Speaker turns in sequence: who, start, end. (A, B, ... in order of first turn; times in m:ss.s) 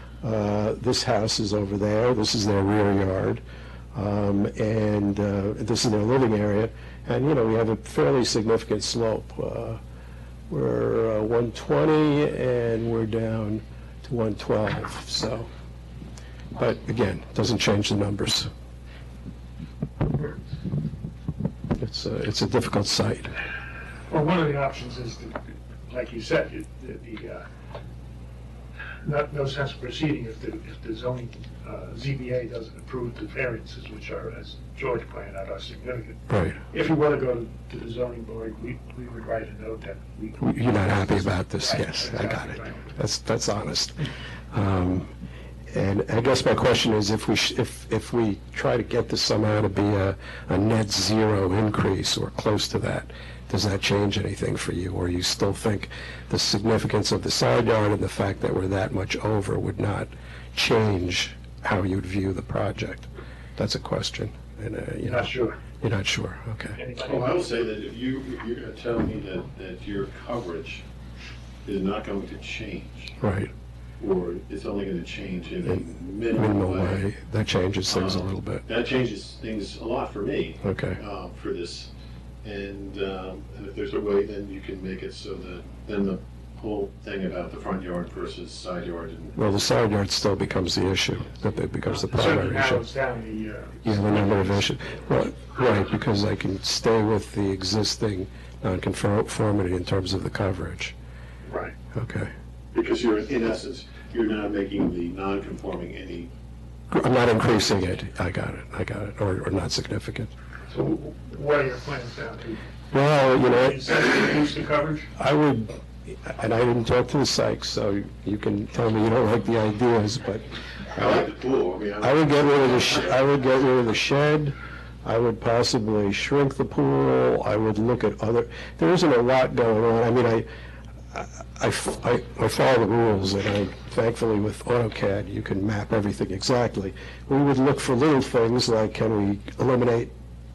0:00.2-0:03.4 A
0:04.0-0:09.8 A
0:10.5-0:15.5 A
0:16.6-0:18.5 A
0:21.8-0:23.4 A
0:24.1-0:27.5 B
0:29.0-0:43.0 B
0:36.3-0:36.6 A
0:40.4-0:45.1 A
0:45.7-1:06.8 A
1:05.0-1:05.6 B
1:06.8-1:07.6 B
1:07.0-1:10.8 C
1:11.6-1:13.2 C
1:13.2-1:13.5 A
1:14.0-1:17.1 C
1:15.6-1:18.7 A
1:17.9-1:21.9 C
1:20.6-1:21.0 A
1:22.4-1:29.4 C
1:29.4-1:32.9 A
1:31.9-1:34.7 B
1:33.8-1:40.9 A
1:41.4-1:41.8 B
1:41.9-1:42.3 A
1:42.7-1:46.3 C
1:46.9-1:50.3 A
1:50.7-1:52.6 B
1:52.9-1:53.9 A
1:53.4-1:55.1 B
1:55.2-2:00.5 A
2:00.9-2:02.6 C
2:02.0-2:10.5 A
2:11.1-2:20.1 A